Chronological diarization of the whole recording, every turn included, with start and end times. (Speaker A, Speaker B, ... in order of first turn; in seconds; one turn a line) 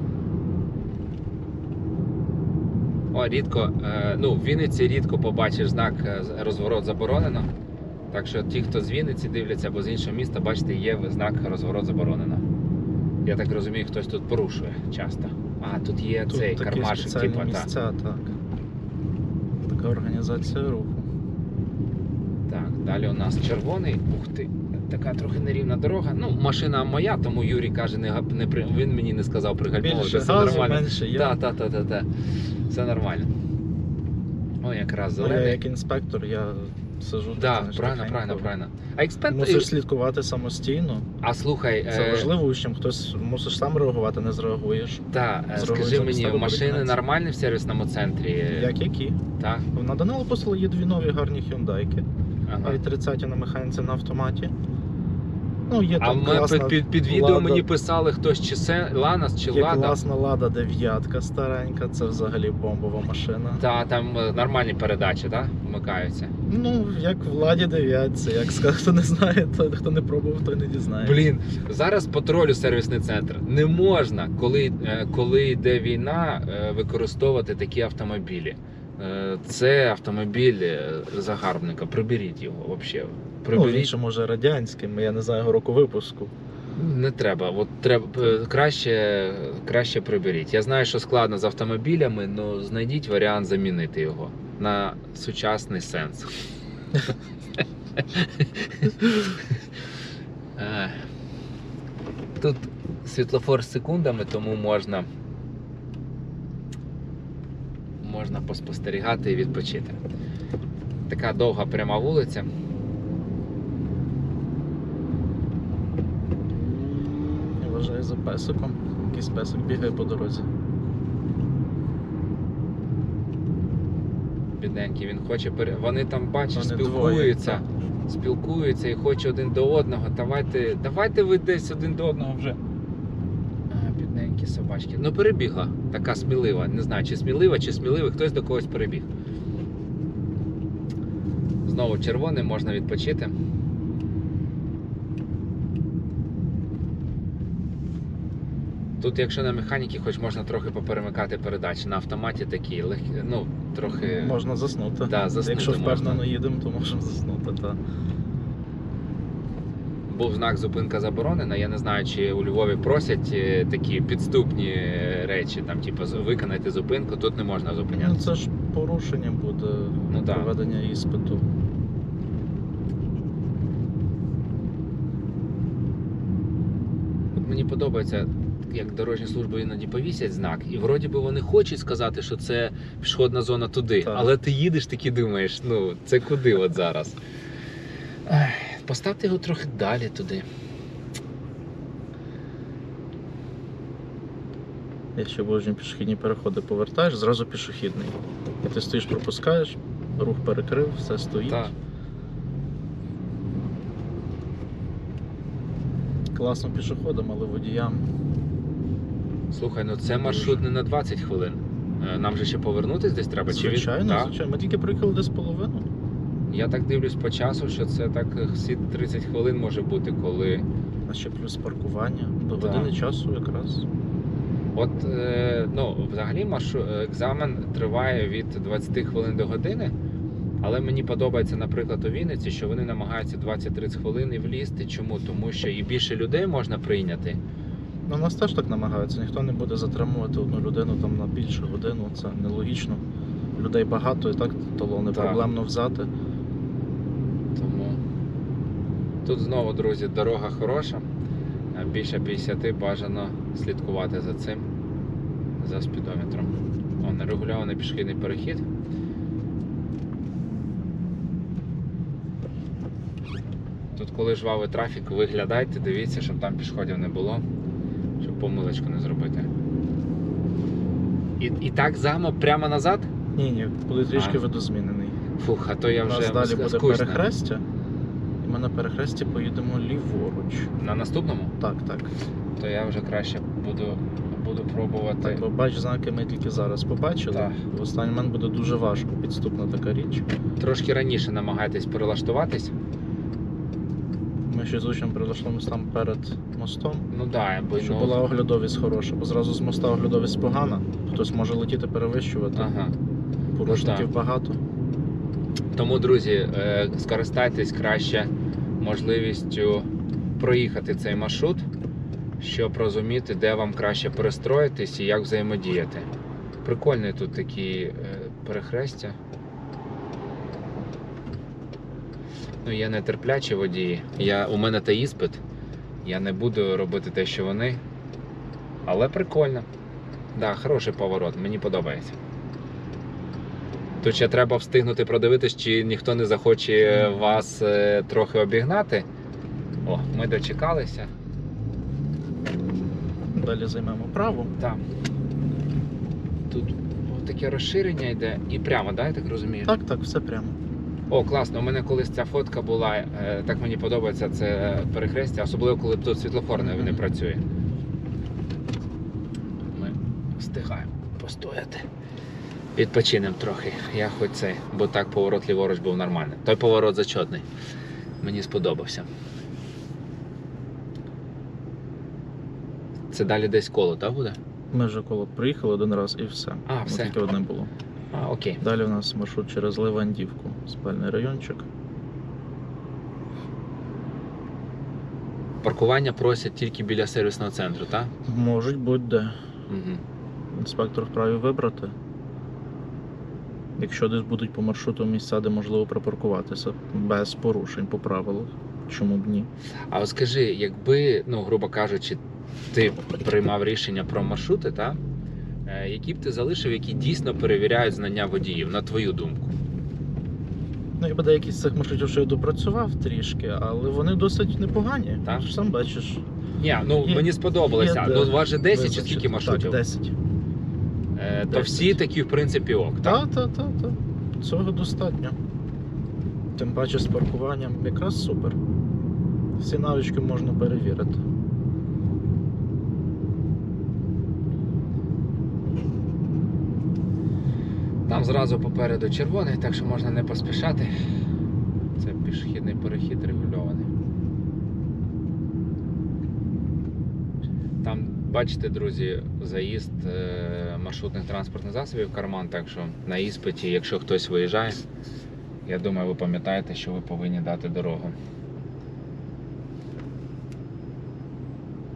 Speaker A: 3.1-7.5
Speaker A: 8.1-12.4
Speaker A: 13.2-17.7
Speaker B: 16.3-18.3
Speaker B: 19.7-21.1
Speaker A: 22.5-32.1
Speaker B: 29.8-31.4
Speaker A: 32.7-33.3
Speaker A: 34.6-35.6
Speaker B: 35.1-38.5
Speaker A: 37.4-39.7
Speaker B: 39.3-41.1
Speaker A: 41.2-42.3
Speaker B: 41.9-47.0
Speaker A: 45.1-48.7
Speaker B: 48.5-49.2
Speaker A: 49.4-49.6
Speaker B: 49.7-52.0
Speaker A: 52.5-52.8
Speaker B: 52.6-54.5
Speaker B: 55.7-57.6
Speaker A: 56.0-60.0
Speaker B: 59.5-63.6
Speaker A: 63.6-66.3
Speaker B: 66.5-71.3
Speaker A: 71.0-83.9
Speaker B: 83.5-86.3
Speaker A: 86.7-96.3
Speaker A: 98.0-99.4
Speaker A: 100.5-101.0
Speaker A: 102.4-105.1
Speaker A: 108.0-110.0
Speaker A: 111.1-112.5
Speaker B: 116.8-120.5
Speaker A: 124.6-132.6
Speaker B: 126.5-127.6
Speaker A: 133.7-139.1
Speaker A: 141.6-143.3
Speaker A: 149.0-154.4
Speaker B: 153.9-157.8
Speaker A: 155.1-156.2
Speaker A: 160.1-168.3
Speaker B: 167.9-171.4
Speaker A: 170.1-170.5
Speaker A: 177.4-187.2
Speaker B: 184.0-184.3
Speaker A: 188.3-190.4
Speaker B: 195.2-201.7
Speaker B: 206.3-208.1
Speaker A: 209.5-214.3
Speaker B: 210.1-210.6
Speaker B: 213.5-215.9
Speaker A: 216.5-220.7
Speaker B: 221.1-223.8
Speaker A: 222.6-222.9
Speaker A: 224.7-229.9
Speaker A: 230.6-237.4
Speaker B: 238.1-243.0
Speaker B: 243.6-246.1
Speaker A: 245.1-245.4
Speaker A: 247.6-248.0
Speaker A: 249.2-251.1
Speaker A: 251.7-254.7
Speaker A: 255.6-258.6
Speaker A: 263.9-267.4
Speaker A: 268.2-269.5
Speaker A: 271.4-273.1
Speaker B: 273.4-275.2
Speaker A: 274.1-274.4
Speaker A: 275.4-277.2
Speaker B: 276.0-277.6
Speaker B: 278.4-280.7
Speaker A: 280.8-281.5
Speaker B: 281.6-282.1
Speaker A: 282.6-285.4
Speaker B: 285.2-290.2
Speaker A: 287.3-287.6
Speaker A: 290.6-292.7
Speaker B: 294.5-297.1
Speaker A: 297.1-298.2
Speaker B: 297.8-302.7
Speaker A: 302.6-302.9
Speaker B: 303.6-304.6
Speaker A: 303.6-304.1
Speaker A: 305.7-311.6
Speaker A: 312.4-316.1
Speaker A: 316.6-319.2
Speaker A: 322.6-325.4
Speaker A: 326.0-327.8
Speaker A: 328.8-329.7
Speaker A: 330.3-332.1
Speaker A: 334.0-339.1
Speaker A: 339.8-341.1
Speaker B: 343.3-344.5
Speaker A: 344.6-344.8
Speaker A: 346.5-349.7
Speaker B: 349.6-350.6
Speaker A: 351.1-357.4
Speaker B: 356.5-357.0
Speaker A: 359.7-361.9
Speaker A: 362.8-367.4
Speaker A: 368.2-369.1
Speaker A: 373.1-374.4
Speaker B: 374.7-377.7
Speaker A: 376.6-377.1
Speaker A: 378.1-378.6
Speaker B: 378.6-381.7
Speaker A: 385.6-388.1
Speaker B: 388.2-389.4
Speaker A: 389.7-390.0
Speaker B: 390.5-391.9
Speaker B: 393.8-399.5
Speaker A: 399.9-402.2
Speaker A: 402.7-405.0
Speaker A: 405.6-409.5
Speaker B: 411.0-416.2
Speaker A: 416.6-419.8
Speaker B: 417.0-420.1
Speaker A: 421.1-423.2
Speaker B: 421.5-422.0
Speaker B: 423.0-425.4
Speaker B: 426.6-428.6
Speaker B: 429.6-431.2
Speaker A: 438.1-440.9
Speaker A: 442.0-443.9
Speaker A: 447.8-454.8
Speaker A: 455.6-458.1